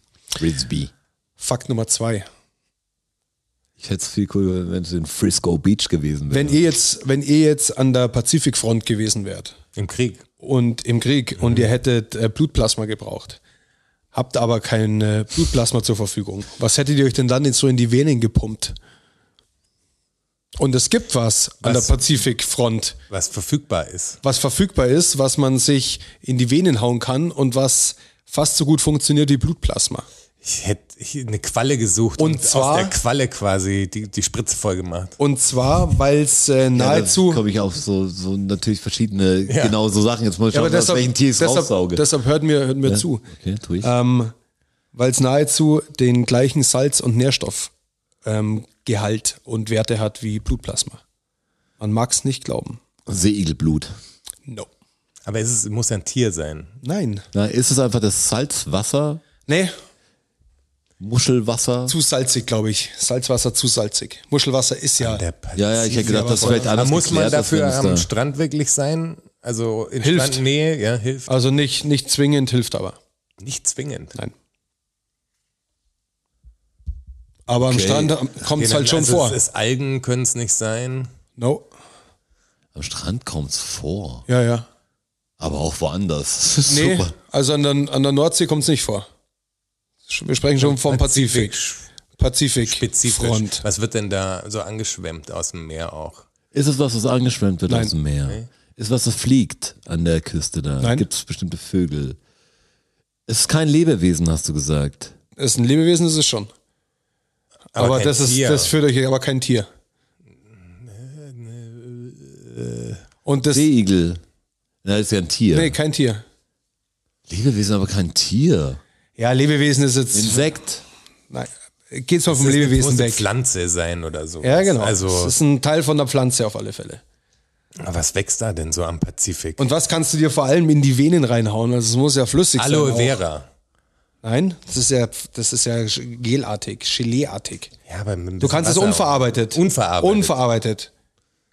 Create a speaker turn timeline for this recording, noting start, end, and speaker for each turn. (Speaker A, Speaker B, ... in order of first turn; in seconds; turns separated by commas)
Speaker A: 0.4-0.9, Speaker B: 1.4-2.3, Speaker A: 3.8-6.6, Speaker B: 6.3-9.6, Speaker C: 9.8-10.2, Speaker B: 10.4-13.4, Speaker B: 14.1-18.8, Speaker B: 20.6-23.0, Speaker C: 21.6-21.9, Speaker C: 23.1-24.2, Speaker B: 24.2-30.1, Speaker C: 30.4-35.2, Speaker B: 32.2-33.0, Speaker B: 35.2-37.4, Speaker A: 36.8-42.0, Speaker C: 39.5-39.8, Speaker B: 40.5-43.3, Speaker A: 42.9-43.9, Speaker B: 43.8-44.3, Speaker B: 45.0-47.7, Speaker B: 48.2-51.0, Speaker B: 51.8-52.8, Speaker A: 53.1-53.9, Speaker C: 55.3-56.8, Speaker B: 56.8-57.2, Speaker A: 57.3-59.2, Speaker B: 59.5-59.7, Speaker A: 61.0-62.0, Speaker B: 61.9-65.2, Speaker C: 65.0-71.3, Speaker A: 65.6-68.1, Speaker B: 65.8-66.7, Speaker B: 70.0-70.4, Speaker B: 71.3-73.0, Speaker C: 73.4-74.2, Speaker B: 77.5-79.4, Speaker A: 77.6-78.2, Speaker C: 78.6-81.1, Speaker B: 81.4-81.7, Speaker A: 82.8-84.2, Speaker B: 84.3-84.7, Speaker A: 85.4-87.1, Speaker B: 86.7-89.1, Speaker B: 90.1-91.6, Speaker C: 90.6-91.8, Speaker B: 92.2-93.7, Speaker C: 92.6-96.3, Speaker A: 96.5-102.2, Speaker B: 100.8-101.1, Speaker A: 103.3-105.1, Speaker B: 105.4-106.5, Speaker C: 107.8-108.7, Speaker B: 107.8-109.7, Speaker C: 110.5-113.0, Speaker B: 113.2-113.7, Speaker A: 113.5-114.2, Speaker A: 114.8-115.8, Speaker B: 115.5-116.2, Speaker A: 117.3-118.8, Speaker B: 119.2-120.5, Speaker A: 120.1-120.8, Speaker B: 121.3-123.2, Speaker C: 122.3-125.3, Speaker B: 124.4-127.0, Speaker C: 127.8-129.6, Speaker B: 129.6-133.2, Speaker C: 132.6-133.5, Speaker B: 134.2-137.7, Speaker C: 137.9-140.4, Speaker B: 138.4-140.9